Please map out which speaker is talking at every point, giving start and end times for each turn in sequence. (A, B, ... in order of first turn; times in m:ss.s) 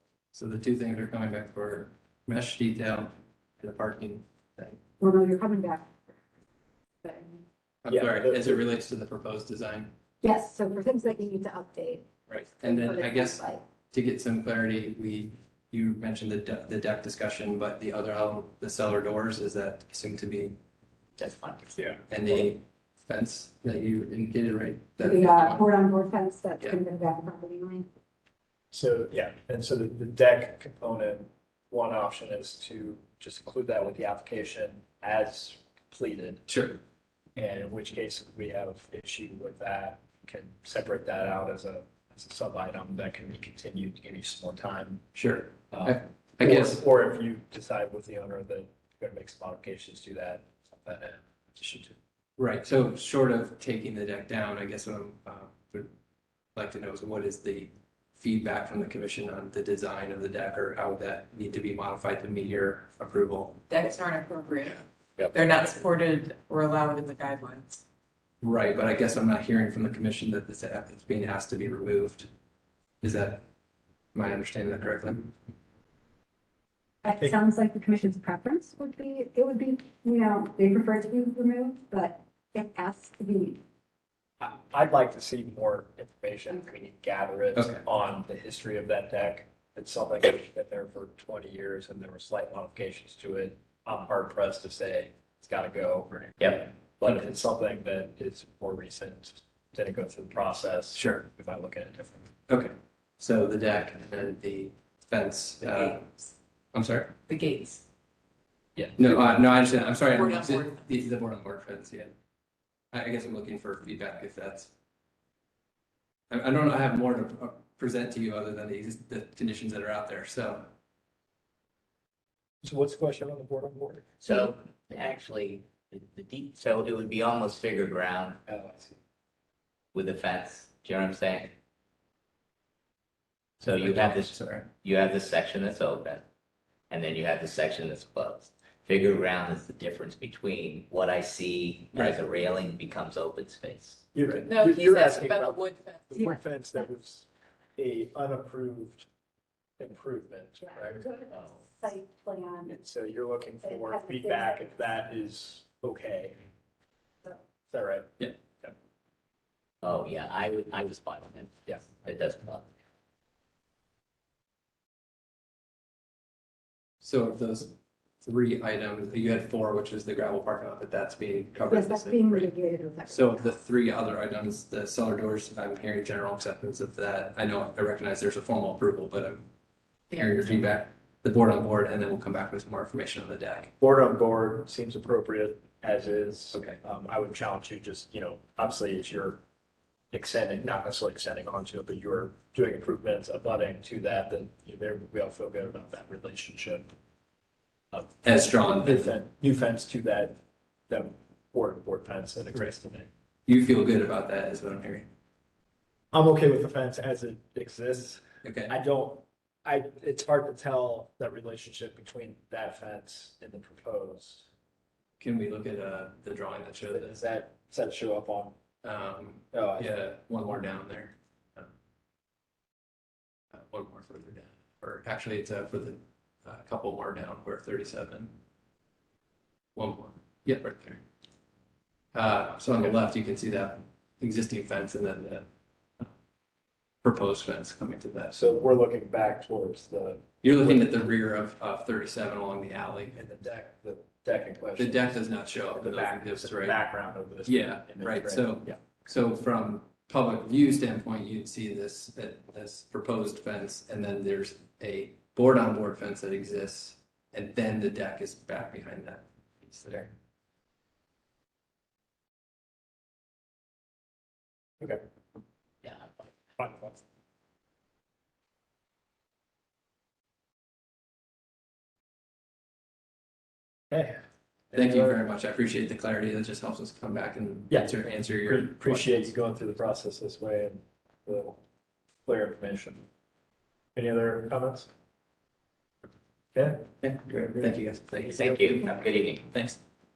0:00.3-0:04.8 A
0:05.0-0:05.9 B
0:07.0-0:07.4 B
0:07.8-0:09.9 A
0:07.9-0:08.6 C
0:10.2-0:12.1 B
0:12.3-0:20.6 A
0:12.6-0:13.6 B
0:21.2-0:21.8 D
0:22.1-0:25.7 A
0:25.0-0:27.9 B
0:28.7-0:36.5 C
0:36.5-0:36.8 A
0:37.4-0:45.0 C
0:45.1-0:46.8 A
0:45.7-0:52.0 C
0:52.4-0:55.9 A
0:56.5-1:03.7 A
1:03.7-1:07.8 E
1:08.4-1:12.3 A
1:13.0-1:13.4 A
1:14.1-1:15.3 A
1:17.0-1:23.6 B
1:17.1-1:17.3 C
1:24.4-1:42.3 C
1:27.6-1:27.8 A
1:36.4-1:36.6 D
1:40.9-1:41.2 A
1:42.5-1:47.1 A
1:47.3-1:47.8 E
1:49.0-1:52.1 A
1:50.0-1:50.8 E
1:52.9-1:54.7 A
1:56.3-2:00.7 A
2:02.6-2:04.1 C
2:04.2-2:08.4 D
2:08.4-2:09.0 C
2:09.9-2:11.5 D
2:13.6-2:14.7 A
2:13.6-2:16.2 D
2:16.9-2:24.0 D
2:21.9-2:22.2 A
2:24.1-2:29.1 C
2:24.4-2:26.2 E
2:29.8-2:31.0 C
2:30.6-2:32.7 B
2:32.7-2:36.4 C
2:33.6-2:34.6 B
2:37.7-2:38.7 C
2:39.8-2:42.7 D
2:47.0-2:52.5 A
2:51.7-2:53.5 B
2:53.0-2:59.4 A
3:00.1-3:03.7 A
3:03.8-3:09.4 C
3:10.1-3:16.9 C
3:17.9-3:20.4 C
3:18.2-3:19.1 A
3:20.9-3:23.1 C
3:23.5-3:25.1 A
3:26.1-3:34.5 C
3:28.4-3:28.7 A
3:35.2-3:37.1 A
3:36.9-3:38.6 C
3:38.8-3:41.6 A
3:39.5-3:40.0 C
3:43.5-3:48.3 A
3:49.8-3:51.0 A
3:52.1-3:55.4 A
3:57.0-3:58.4 A
3:58.3-4:00.9 C
4:00.4-4:03.2 A
4:03.1-4:08.8 C
4:04.8-4:06.8 A
4:07.4-4:20.1 A
4:26.6-4:27.0 C
4:33.9-4:35.2 C
4:34.7-4:39.3 A
4:37.7-4:41.6 C
4:42.2-4:43.0 C
4:43.9-4:44.9 C
4:46.5-4:46.8 C
4:47.0-4:48.5 A
4:48.2-4:48.7 C
4:48.2-4:49.5 D
4:49.5-4:49.8 A